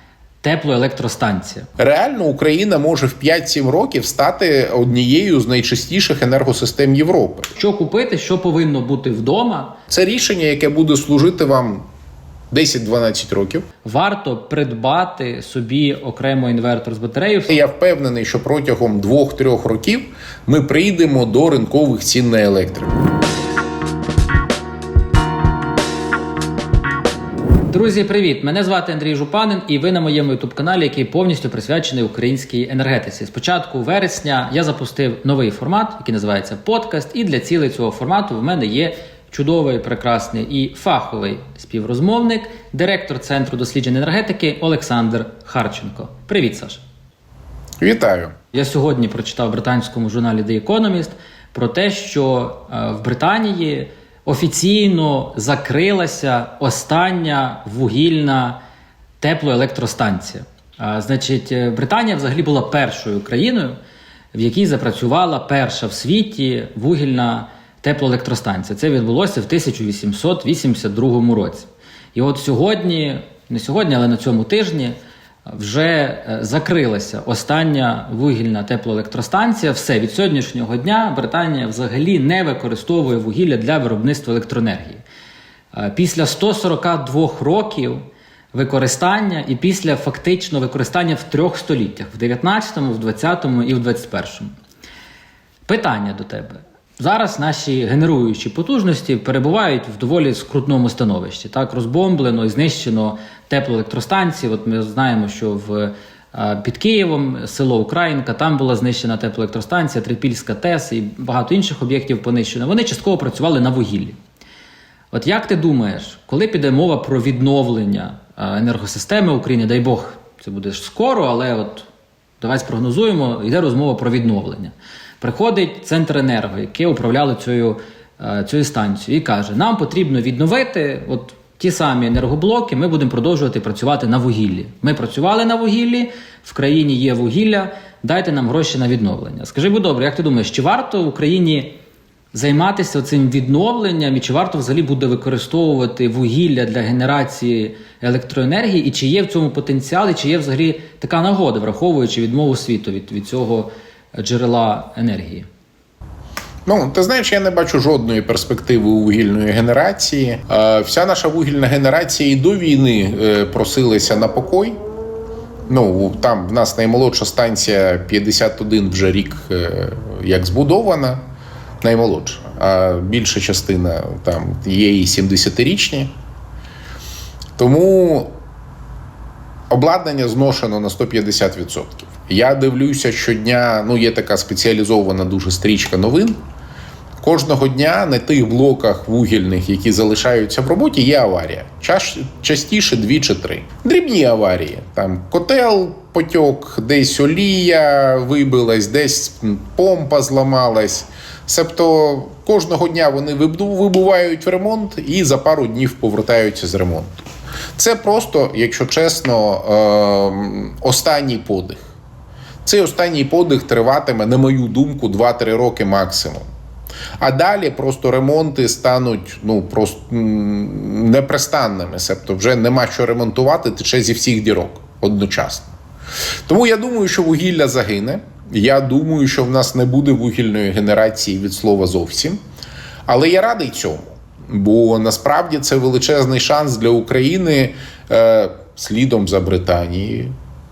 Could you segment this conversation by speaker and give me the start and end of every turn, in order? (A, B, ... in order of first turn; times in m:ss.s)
0:00.4-0:01.7 A
0:01.8-0:07.5 B
0:07.6-0:09.8 A
0:09.9-0:11.8 B
0:12.5-0:13.6 B
0:13.8-0:17.6 A
0:17.5-0:23.0 B
0:27.7-0:46.8 A
0:47.8-0:48.4 B
0:48.5-0:58.6 A
0:59.2-1:03.8 A
1:04.3-1:15.0 A
1:15.5-1:25.0 A
1:25.7-1:34.5 A
1:35.7-1:54.2 A
1:55.1-2:01.9 A
2:02.4-2:21.8 A
2:22.3-2:35.5 A
2:36.7-2:44.8 B
2:45.7-2:51.2 B
2:51.8-2:56.1 B
2:57.6-2:58.3 B
2:59.7-3:06.4 B
3:07.2-3:27.2 B
3:27.8-3:31.8 B
3:32.6-3:36.5 B
3:37.2-3:45.7 B
3:46.5-3:52.4 B
3:53.1-4:00.3 B